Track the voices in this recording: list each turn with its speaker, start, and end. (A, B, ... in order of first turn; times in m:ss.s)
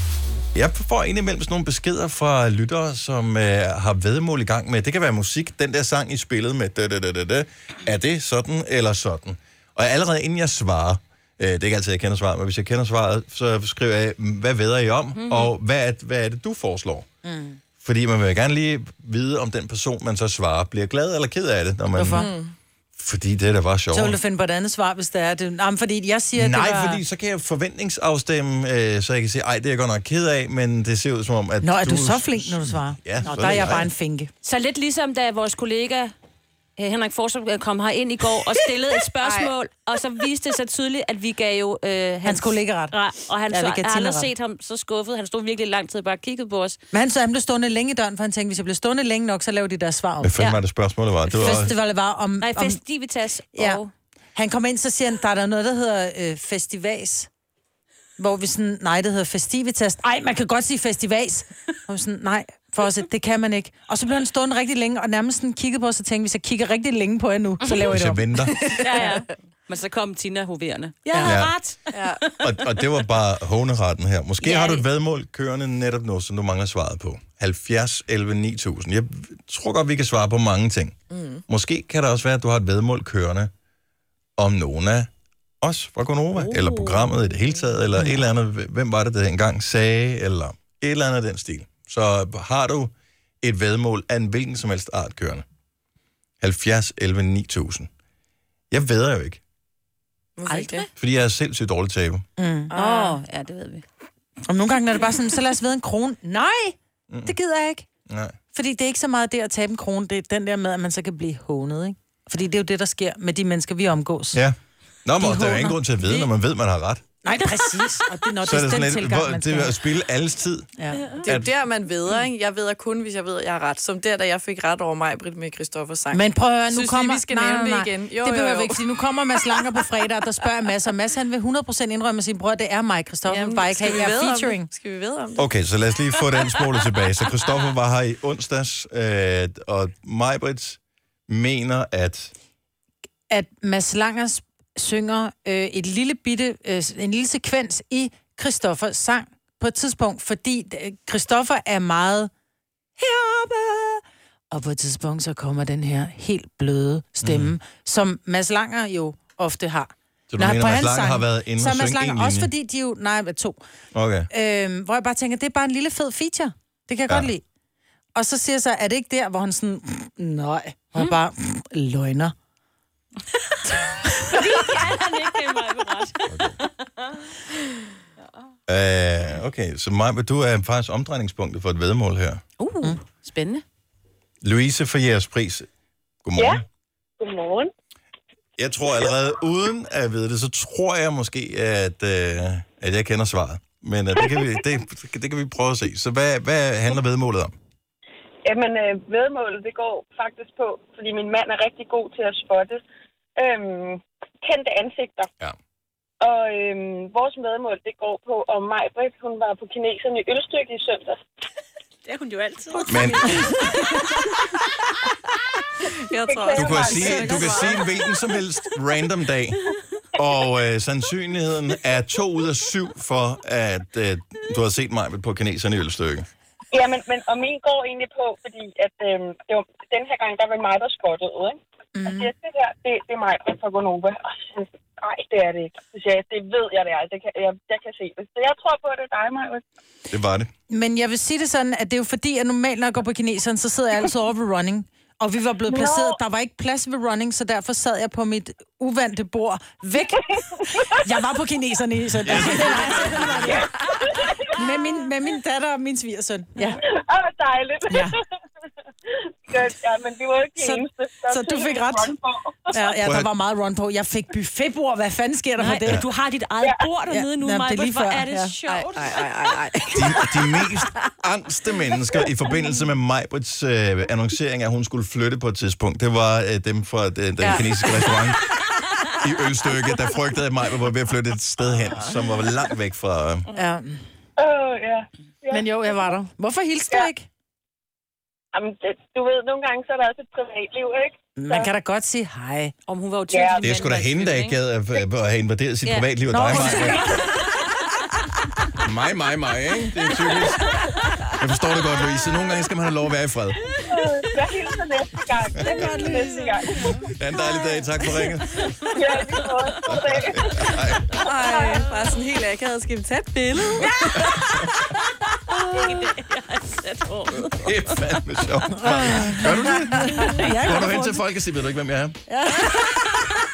0:00.5-0:17.0 A
0:15.2-0:15.5 B
0:17.2-0:17.6 C
0:17.8-0:22.3 A
0:21.9-0:22.3 C
0:22.1-0:22.5 D
0:23.0-0:24.2 A
0:23.9-0:27.0 C
0:26.3-0:33.9 A
0:31.6-0:34.3 C
0:34.4-0:36.1 B
0:36.8-0:46.8 B
0:42.2-0:43.0 C
0:43.5-0:44.3 C
0:46.9-0:50.5 C
0:50.2-0:51.7 A
0:51.3-0:51.7 B
0:51.3-0:52.8 C
0:52.4-0:53.9 B
0:53.5-0:53.8 C
0:54.3-0:57.3 C
0:58.2-1:08.8 C
1:07.8-1:08.6 A
1:08.8-1:12.5 B
1:11.1-1:11.4 D
1:11.2-1:11.6 A
1:11.9-1:12.2 D
1:12.4-1:20.9 A
1:14.4-1:14.8 B
1:21.1-1:21.4 D
1:21.5-1:23.5 A
1:24.4-1:25.1 A
1:25.6-1:35.4 A
1:26.6-1:27.1 B
1:36.4-1:37.9 A
1:38.7-1:39.4 A
1:40.4-1:40.9 D
1:40.4-1:40.9 B
1:41.0-1:42.2 A
1:42.4-1:42.7 C
1:42.7-1:43.2 D
1:42.7-1:43.8 B
1:44.4-1:47.8 C
1:47.1-1:47.3 A
1:48.1-1:48.3 A
1:48.5-1:54.4 C
1:54.3-1:57.0 A
1:55.2-1:56.3 C
1:57.2-1:59.8 C
1:58.4-2:00.7 A
2:00.8-2:01.1 C
2:00.9-2:01.2 B
2:01.2-2:09.9 D
2:01.2-2:01.5 A
2:06.1-2:14.7 C
2:13.2-2:15.5 D
2:15.4-2:22.3 A
2:23.3-2:32.3 C
2:33.0-2:43.6 C
2:37.2-2:37.5 A
2:40.3-2:42.5 A
2:43.9-2:44.3 A
2:44.3-2:47.4 C
2:48.1-2:52.3 C
2:54.2-2:57.1 B
2:58.7-3:02.4 A
3:02.6-3:03.6 B
3:04.4-3:05.7 A
3:06.2-3:06.6 A
3:06.4-3:06.6 E
3:07.2-3:07.7 E
3:08.6-3:17.5 A
3:18.4-3:22.8 E
3:23.4-3:25.3 E
3:26.2-3:31.2 E
3:32.0-3:34.3 D
3:32.9-3:33.7 A
3:35.8-3:38.0 D
3:36.2-3:37.8 E
3:36.5-3:39.6 A
3:40.1-3:46.3 A
3:46.7-3:59.6 E
3:52.0-3:52.3 C
4:00.1-4:00.5 A
4:00.7-4:13.8 C
4:05.7-4:06.2 E
4:12.2-4:13.7 A
4:13.4-4:14.8 E
4:14.4-4:16.8 C
4:16.6-4:18.2 E
4:17.9-4:18.1 C
4:19.1-4:23.0 E
4:20.6-4:22.1 C
4:22.7-4:26.0 C
4:23.0-4:23.3 A
4:25.6-4:29.1 B
4:26.6-4:26.9 E
4:27.1-4:28.5 C
4:28.6-4:30.9 D
4:29.9-4:38.5 A
4:37.4-4:38.3 D
4:39.0-4:43.5 A
4:43.5-4:44.0 C
4:44.4-4:45.6 E
4:45.5-4:47.3 C
4:48.5-4:51.7 E
4:51.4-4:52.7 C
4:52.9-4:54.6 B
4:53.3-4:53.7 E
4:53.6-4:57.2 A
4:55.8-4:57.7 B
4:56.3-4:57.4 C
4:58.8-5:03.6 A
5:03.9-5:07.0 E
5:05.7-5:06.5 C
5:07.1-5:08.6 A
5:08.5-5:09.0 B
5:08.9-5:10.7 E
5:09.9-5:11.1 A
5:11.2-5:13.9 D
5:11.4-5:12.0 B
5:13.8-5:14.4 B
5:15.6-5:17.9 B
5:17.6-5:22.2 A
5:18.8-5:21.2 C
5:20.1-5:20.6 B
5:22.3-5:23.0 C